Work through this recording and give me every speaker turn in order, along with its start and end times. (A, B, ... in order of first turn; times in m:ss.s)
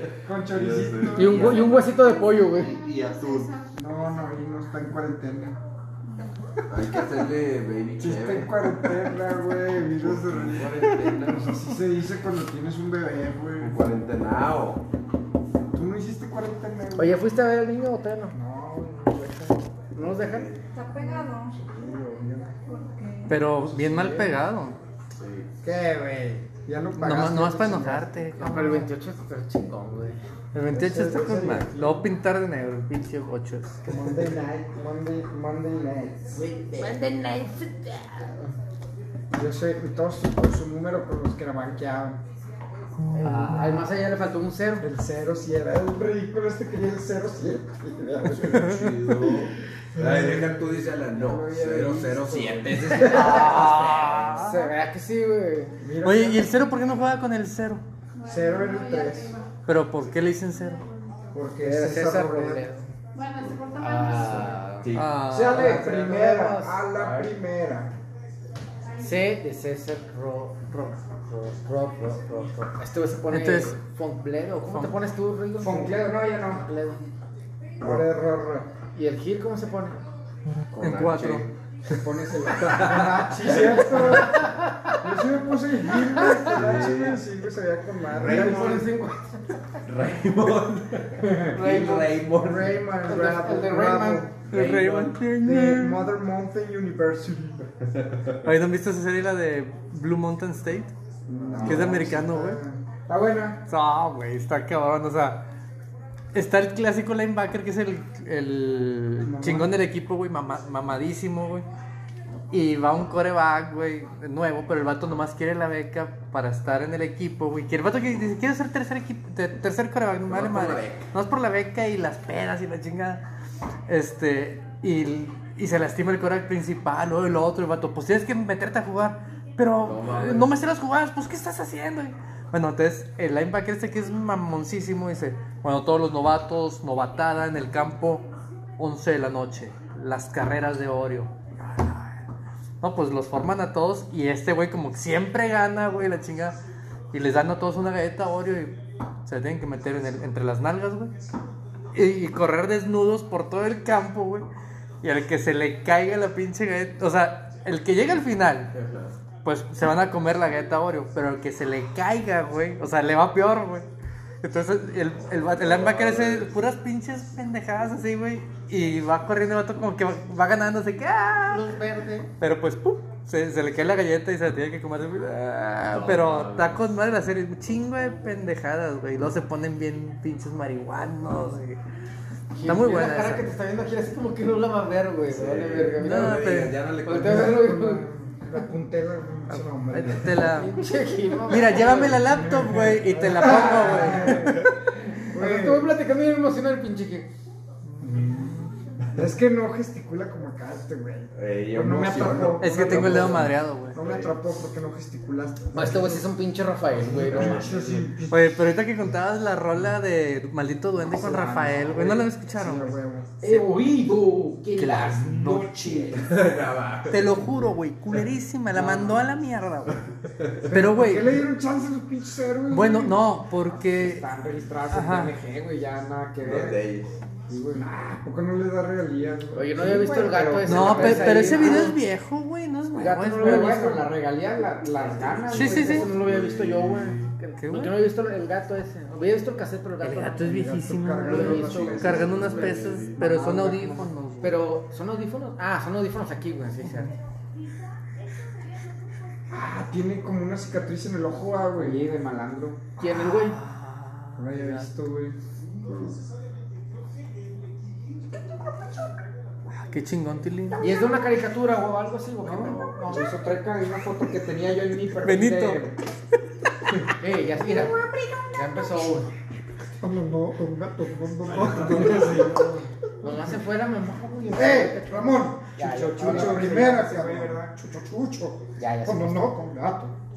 0:00.2-0:01.6 A
0:00.5-0:01.9 B
0:01.1-0:02.8 C
0:02.5-0:03.5 B
0:03.7-0:05.6 A
0:06.7-0:08.8 B
0:08.0-0:13.9 A
0:10.0-0:11.6 B
0:13.6-0:14.8 B
0:15.7-0:17.2 A
0:17.0-0:18.4 C
0:18.3-0:20.1 A
0:19.9-0:20.5 C
0:20.2-0:20.6 B
0:20.8-0:21.5 D
0:20.8-0:22.6 A
0:22.8-0:23.3 D
0:23.3-0:24.8 E
0:23.7-0:24.4 A
0:25.2-0:25.5 B
0:25.6-0:28.2 A
0:27.0-0:28.9 E
0:28.4-0:30.2 C
0:30.5-0:33.9 E
0:30.7-0:32.1 A
0:33.9-0:36.4 A
0:36.3-0:38.4 C
0:39.3-0:42.2 A
0:43.2-0:44.9 C
0:44.8-0:53.0 A
0:48.2-0:54.4 B
0:48.5-0:48.8 E
0:51.8-0:52.6 F
0:52.8-0:55.8 C
0:53.0-0:54.7 E
0:55.8-0:56.9 A
0:56.0-0:57.8 E
0:58.2-0:59.4 A
0:58.2-0:59.3 D
0:59.7-1:00.8 E
1:01.3-1:02.7 A
1:01.6-1:02.9 C
1:03.2-1:04.5 D
1:03.7-1:04.9 C
1:04.2-1:05.2 B
1:05.0-1:05.9 E
1:05.3-1:07.9 A
1:05.4-1:06.8 C
1:06.9-1:07.3 B
1:09.0-1:17.0 C
1:13.3-1:13.8 E
1:14.7-1:15.0 E
1:15.6-1:16.7 F
1:17.8-1:18.7 A
1:18.9-1:20.0 C
1:20.7-1:21.5 B
1:20.8-1:21.5 E
1:22.0-1:24.4 A
1:22.1-1:22.9 F
1:22.6-1:23.9 B
1:25.0-1:28.8 A
1:26.4-1:27.2 B
1:28.0-1:28.8 B
1:28.2-1:29.4 C
1:29.8-1:33.0 B
1:31.6-1:32.2 C
1:32.4-1:34.3 A
1:33.0-1:34.4 C
1:34.5-1:36.1 E
1:34.5-1:35.2 B
1:35.4-1:37.7 A
1:38.0-1:38.3 B
1:38.4-1:40.9 E
1:41.3-1:42.8 A
1:41.6-1:42.0 B
1:41.6-1:42.6 E
1:43.1-1:43.6 F
1:43.7-1:45.4 E
1:46.3-1:51.7 E
1:49.2-1:49.7 A
1:52.5-2:03.2 E
2:00.3-2:01.1 B
2:03.9-2:18.3 E
2:09.8-2:10.6 B
2:18.8-2:22.2 E
2:22.8-2:26.6 E
2:27.1-2:31.1 E
2:31.9-2:34.5 E
2:35.0-2:38.7 E
2:38.7-2:39.1 B
2:39.4-2:43.9 E
2:44.4-2:51.8 E
2:45.2-2:46.5 B
2:51.5-2:52.3 C
2:52.4-3:01.8 E
2:55.9-2:56.8 B
3:02.5-3:06.5 C
3:02.6-3:03.5 E
3:05.3-3:07.7 B
3:06.0-3:06.8 E
3:07.0-3:08.0 C
3:07.1-3:10.5 A
3:09.5-3:10.8 E
3:10.4-3:12.2 C
3:11.5-3:14.7 E
3:12.1-3:14.6 A
3:13.7-3:14.3 C
3:15.3-3:17.3 C
3:15.3-3:16.0 A
3:18.0-3:26.3 A
3:21.4-3:24.3 B
3:22.6-3:24.0 E
3:25.7-3:27.7 C
3:26.9-3:28.1 B
3:27.0-3:28.6 A
3:28.3-3:33.7 E
3:31.1-3:33.3 A
3:33.4-3:36.3 C
3:34.8-3:35.7 E
3:35.4-3:36.2 F
3:36.1-3:38.2 B
3:37.1-3:40.1 E
3:38.8-3:39.2 F
3:40.4-3:40.7 B
3:40.7-3:41.4 E
3:40.7-3:43.4 A
3:42.7-3:44.3 E
3:43.7-3:46.8 F
3:44.9-3:45.4 E
3:46.4-3:47.2 B
3:47.5-3:47.9 F
3:47.7-3:50.1 A
3:49.5-3:52.0 C
3:49.8-3:52.0 F
3:50.6-3:54.0 E
3:52.9-3:54.1 C
3:53.4-3:56.1 F
3:54.9-4:00.5 C
3:55.5-3:56.1 E
3:56.1-3:57.2 B
3:57.6-3:58.1 E
4:00.0-4:04.6 E
4:00.4-4:02.7 A
4:01.2-4:02.2 C
4:01.6-4:03.2 B
4:03.2-4:07.1 C
4:06.8-4:07.1 E
4:09.5-4:11.9 A
4:11.3-4:12.9 F
4:13.0-4:13.6 C
4:13.0-4:14.8 E
4:14.4-4:15.4 A
4:15.9-4:16.2 B
4:19.7-4:20.9 E
4:20.8-4:23.3 C
4:22.4-4:25.9 F
4:22.6-4:23.0 B
4:25.2-4:25.9 E
4:27.2-4:29.3 C
4:30.0-4:32.9 A
4:31.5-4:32.6 B
4:33.2-4:37.5 C
4:34.5-4:40.2 A
4:36.2-4:37.3 F
4:38.8-4:39.6 C